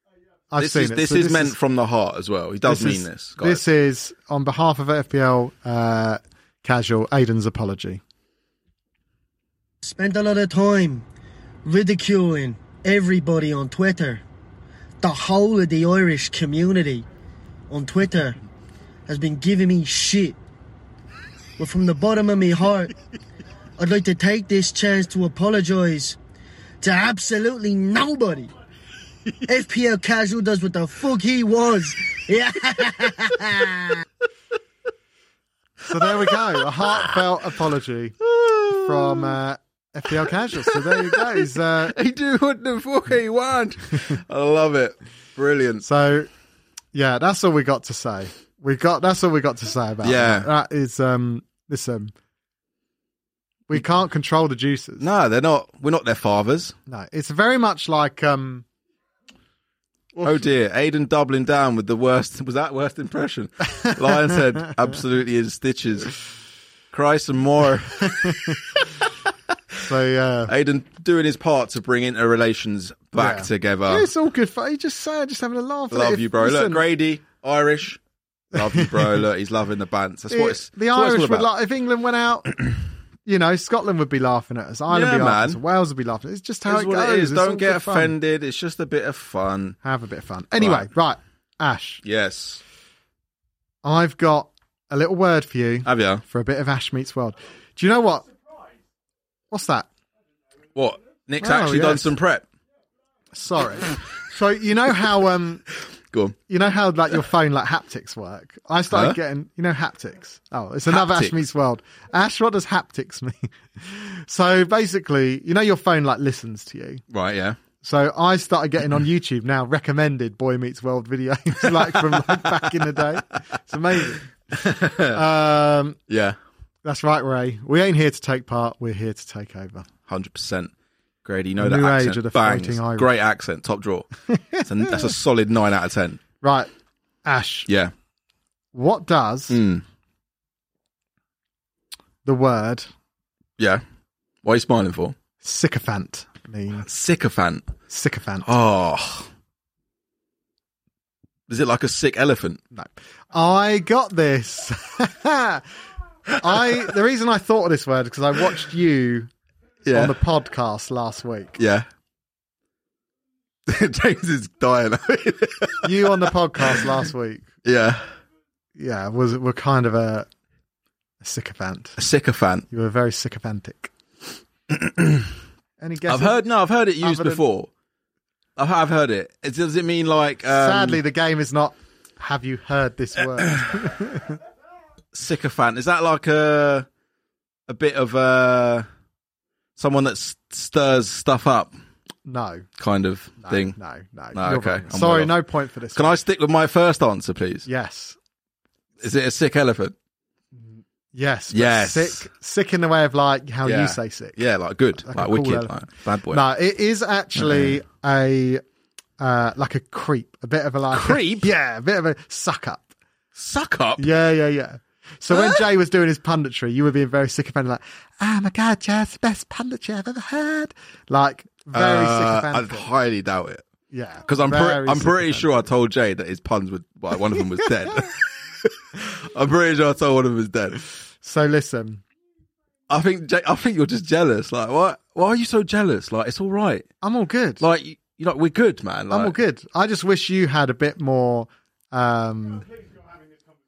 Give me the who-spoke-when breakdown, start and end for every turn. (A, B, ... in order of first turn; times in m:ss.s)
0:00.5-0:01.6 A
0:00.6-0:03.6 B
0:02.6-0:08.0 A
0:09.8-0:11.1 C
0:11.6-0:14.2 C
0:15.0-0:17.0 C
0:17.7-0:18.4 C
0:19.1-0:20.4 C
0:21.6-0:22.9 C
0:23.8-0:26.2 C
0:26.8-0:28.5 C
0:29.5-0:34.0 C
0:35.9-0:38.2 A
0:36.0-0:37.2 B
0:38.2-0:39.4 B
0:38.7-0:42.0 A
0:40.1-0:45.8 B
0:45.8-0:46.3 A
0:46.9-0:52.1 A
0:50.0-0:50.5 B
0:53.7-0:55.1 A
0:55.0-0:56.8 B
0:56.9-0:58.6 A
1:00.2-1:00.4 A
1:00.2-1:06.2 B
1:06.9-1:08.5 B
1:08.1-1:08.6 A
1:09.8-1:10.5 A
1:10.5-1:14.1 B
1:13.2-1:16.8 A
1:15.9-1:18.0 B
1:18.5-1:21.5 B
1:18.7-1:19.2 A
1:20.3-1:22.6 A
1:23.2-1:28.1 A
1:24.9-1:25.6 B
1:26.7-1:29.8 B
1:29.8-1:32.0 A
1:30.6-1:30.9 B
1:32.0-1:32.6 B
1:33.8-1:38.3 A
1:35.8-1:36.2 B
1:39.5-1:39.9 A
1:40.8-1:42.4 B
1:41.4-1:42.1 A
1:43.3-1:45.7 A
1:46.1-1:46.4 B
1:46.5-1:57.0 A
1:48.9-1:49.2 B
1:50.9-1:51.4 B
1:57.1-1:57.6 B
1:57.8-2:06.0 A
2:01.7-2:02.4 B
2:04.5-2:05.2 B
2:06.1-2:06.4 B
2:06.8-2:09.9 A
2:10.1-2:10.7 B
2:11.2-2:14.1 B
2:11.6-2:13.1 A
2:14.3-2:15.0 A
2:14.6-2:16.2 B
2:16.4-2:16.7 A
2:17.2-2:17.7 A
2:17.7-2:17.9 B
2:18.7-2:19.6 A
2:19.5-2:19.8 B
2:22.2-2:22.9 A
2:23.6-2:23.8 B
2:24.4-2:25.2 B
2:25.4-2:26.9 A
2:26.8-2:27.7 B
2:27.9-2:28.5 A
2:28.4-2:29.3 B
2:31.5-2:32.6 B
2:32.7-2:35.6 A
2:36.4-2:39.3 A
2:39.8-2:40.2 B
2:39.9-2:41.6 A
2:41.6-2:41.9 B
2:43.7-2:46.9 B
2:45.8-2:47.5 A
2:47.6-2:48.1 B
2:48.8-2:50.3 A
2:51.2-2:52.0 A
2:52.0-2:52.7 B
2:52.7-2:53.9 A
2:54.7-2:55.3 B
2:55.8-2:56.4 A
2:56.1-2:57.7 B
2:57.0-2:57.4 A
2:58.6-3:01.0 B
3:00.5-3:04.4 A
3:05.1-3:06.9 B
3:07.7-3:08.9 B
3:09.8-3:11.7 B
3:12.3-3:12.7 A
3:12.8-3:13.8 B
3:13.4-3:16.2 A
3:14.3-3:15.3 B
3:15.9-3:17.7 B
3:17.7-3:18.2 A
3:19.0-3:20.0 B
3:20.6-3:24.4 A
3:21.5-3:22.2 B
3:23.6-3:26.4 B
3:25.0-3:25.7 A
3:26.3-3:28.6 A
3:27.4-3:27.8 B
3:29.2-3:32.9 A
3:30.9-3:31.5 B
3:33.4-3:34.1 B
3:34.0-3:42.9 A
3:35.3-3:35.6 B
3:41.7-3:43.6 B
3:43.9-3:45.5 A
3:44.3-3:50.8 B
3:51.2-3:52.0 A
3:52.9-3:56.9 B
3:57.0-3:57.6 A
3:57.6-3:59.4 B
3:59.1-4:02.8 A